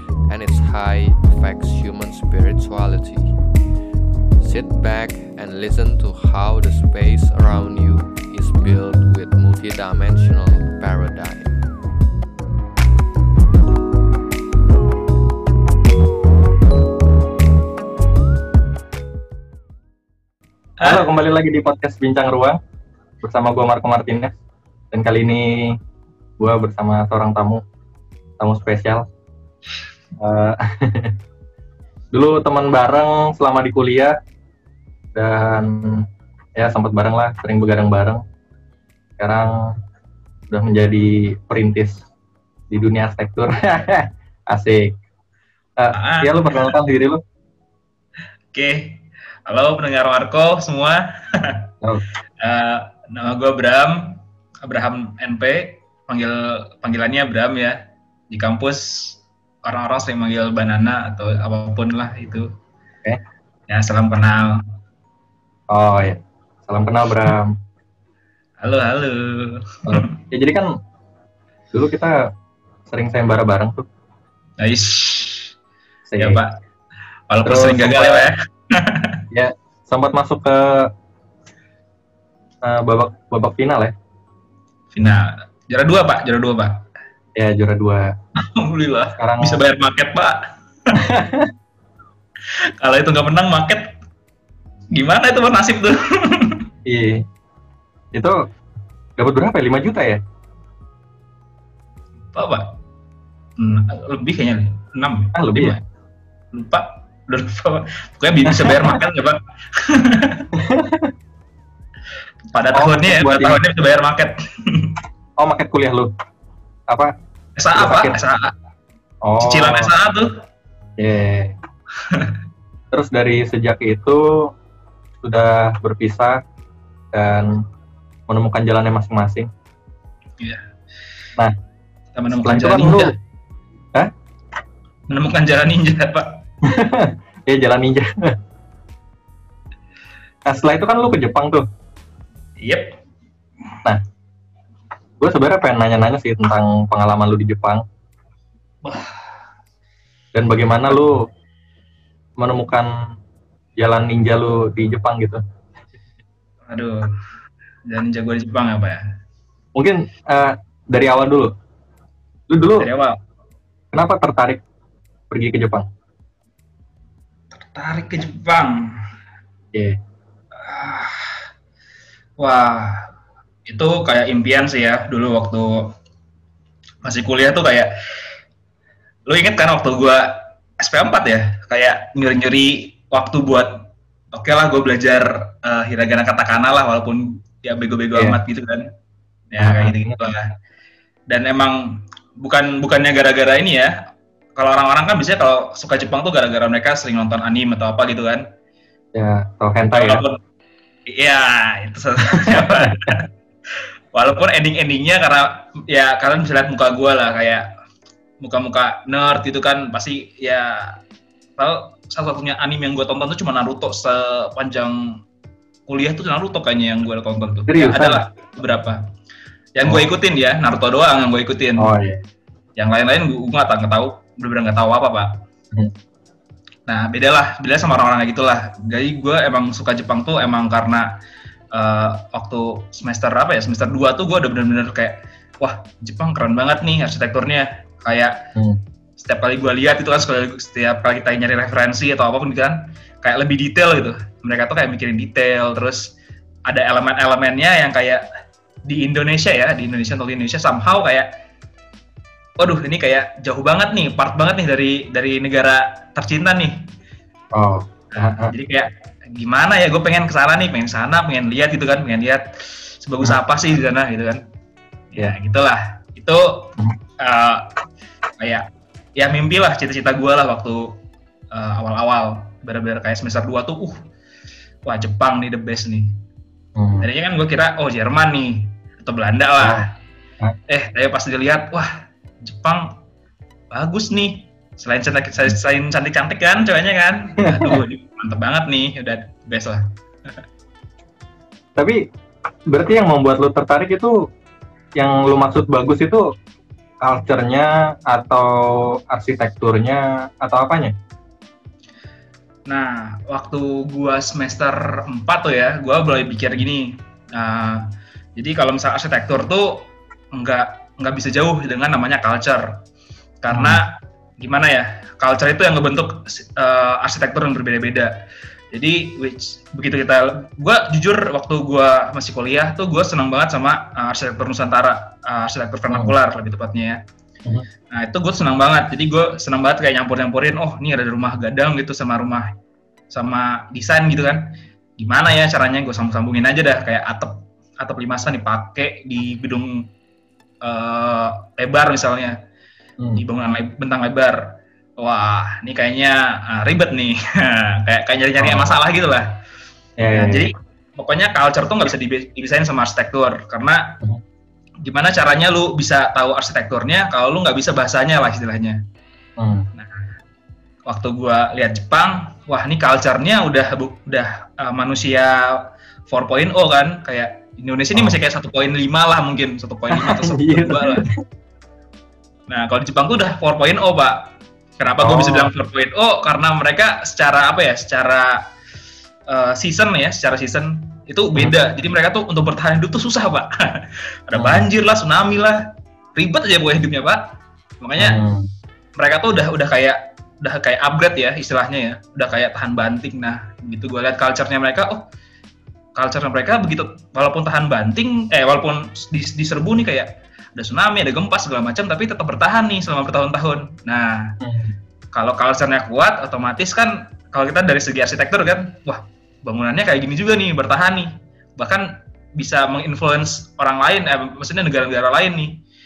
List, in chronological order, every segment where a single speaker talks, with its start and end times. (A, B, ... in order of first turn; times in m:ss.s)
0:00.2-0:03.4 A
0:04.4-0:11.6 A
0:20.8-0:21.1 B
0:20.8-0:22.6 C
0:23.2-0:24.3 C
0:24.9-0:25.8 C
0:26.4-0:27.6 C
0:28.4-0:29.1 C
0:30.2-0:31.1 C
0:32.1-0:34.2 C
0:35.1-0:36.0 C
0:36.6-0:38.2 C
0:39.2-0:39.7 C
0:40.5-0:42.0 C
0:42.7-0:45.0 C
0:45.8-0:47.2 C
0:45.9-0:46.8 B
0:48.5-0:51.6 B
0:52.4-0:57.8 B
0:58.3-1:02.5 B
1:03.7-1:04.6 B
1:05.7-1:07.5 C
1:08.6-1:10.1 B
1:09.9-1:10.7 C
1:11.7-1:12.3 C
1:12.9-1:13.8 C
1:14.6-1:15.5 B
1:16.1-1:16.4 C
1:16.2-1:16.5 B
1:17.3-1:19.2 B
1:17.4-1:18.3 C
1:19.3-1:20.9 C
1:22.6-1:23.9 C
1:24.9-1:26.8 B
1:27.4-1:28.1 C
1:28.4-1:30.4 B
1:29.1-1:29.6 C
1:31.0-1:31.5 C
1:32.8-1:33.9 B
1:34.9-1:36.6 B
1:36.8-1:37.2 C
1:39.2-1:40.2 C
1:42.3-1:42.7 B
1:43.6-1:45.8 B
1:45.3-1:45.8 C
1:46.5-1:50.5 B
1:48.4-1:49.0 C
1:50.5-1:51.1 C
1:52.5-1:55.0 B
1:52.7-1:53.6 C
1:55.4-1:56.1 C
1:57.6-1:58.5 B
1:57.8-1:58.2 C
1:59.2-1:59.9 C
1:59.4-2:00.3 B
2:01.0-2:01.5 C
2:02.0-2:02.4 B
2:02.9-2:04.5 C
2:05.2-2:06.4 C
2:07.1-2:07.6 C
2:08.3-2:09.5 C
2:12.1-2:13.1 B
2:12.4-2:13.1 C
2:15.1-2:16.4 B
2:16.6-2:18.4 C
2:20.4-2:21.7 C
2:22.6-2:23.0 B
2:25.2-2:27.8 C
2:28.8-2:29.2 B
2:30.3-2:31.2 C
2:32.4-2:32.9 C
2:33.8-2:35.4 C
2:36.7-2:37.1 B
2:37.9-2:39.0 B
2:39.7-2:41.5 C
2:42.5-2:42.9 C
2:42.8-2:43.2 B
2:43.9-2:44.6 C
2:45.3-2:45.8 C
2:47.5-2:48.9 B
2:49.7-2:50.0 C
2:50.6-2:51.4 B
2:52.4-2:53.1 B
2:53.6-2:55.9 B
2:57.0-2:57.9 B
2:59.3-3:03.8 B
3:04.3-3:08.8 B
3:09.5-3:10.5 B
3:09.6-3:10.4 C
3:11.3-3:13.9 B
3:14.6-3:18.4 B
3:19.1-3:20.2 C
3:19.9-3:20.4 B
3:21.1-3:23.3 B
3:22.3-3:23.1 C
3:24.1-3:27.6 B
3:28.4-3:31.0 B
3:31.6-3:35.1 B
3:35.9-3:39.0 B
3:37.7-3:38.2 C
3:39.8-3:41.9 B
3:41.8-3:42.2 C
3:42.8-3:45.3 B
3:46.9-3:51.1 B
3:51.7-3:58.4 B
3:59.2-4:06.1 B
4:06.7-4:08.2 B
4:08.9-4:11.3 B
4:12.6-4:16.7 B
4:17.5-4:18.5 C
4:18.2-4:22.4 B
4:23.0-4:24.4 B
4:25.1-4:27.7 B
4:28.4-4:28.6 B
4:29.2-4:30.9 B
4:31.5-4:34.0 B
4:34.8-4:36.1 B
4:36.8-4:37.1 C
4:37.0-4:39.9 B
4:39.6-4:39.9 C
4:40.7-4:41.9 B
4:42.4-4:42.9 B
4:43.7-4:49.8 B
4:47.4-4:47.8 C
4:51.8-4:52.0 C
4:52.7-4:54.2 C
4:55.0-4:56.3 C
4:57.0-5:00.9 C
5:02.7-5:07.8 B
5:08.4-5:12.8 B
5:13.4-5:18.1 B
5:13.5-5:13.8 C
5:18.7-5:27.0 B
5:27.9-5:32.4 B
5:33.1-5:34.4 B
5:35.0-5:39.8 B
5:40.6-5:42.4 B
5:43.2-5:44.4 B
5:45.0-5:49.3 B
5:48.4-5:48.8 C
5:50.0-5:50.5 C
5:50.1-5:54.0 B
5:54.8-5:58.8 B
5:59.4-5:59.7 C
6:00.9-6:11.1 B
6:09.9-6:11.1 C
6:12.5-6:14.2 B
6:14.8-6:18.4 B
6:15.0-6:15.5 C
6:19.3-6:25.6 B
6:24.3-6:24.6 C
6:26.1-6:27.2 B
6:27.8-6:28.2 B
6:28.0-6:28.5 C
6:29.0-6:35.0 B
6:36.0-6:44.3 B
6:44.4-6:44.7 C
6:45.1-6:55.6 B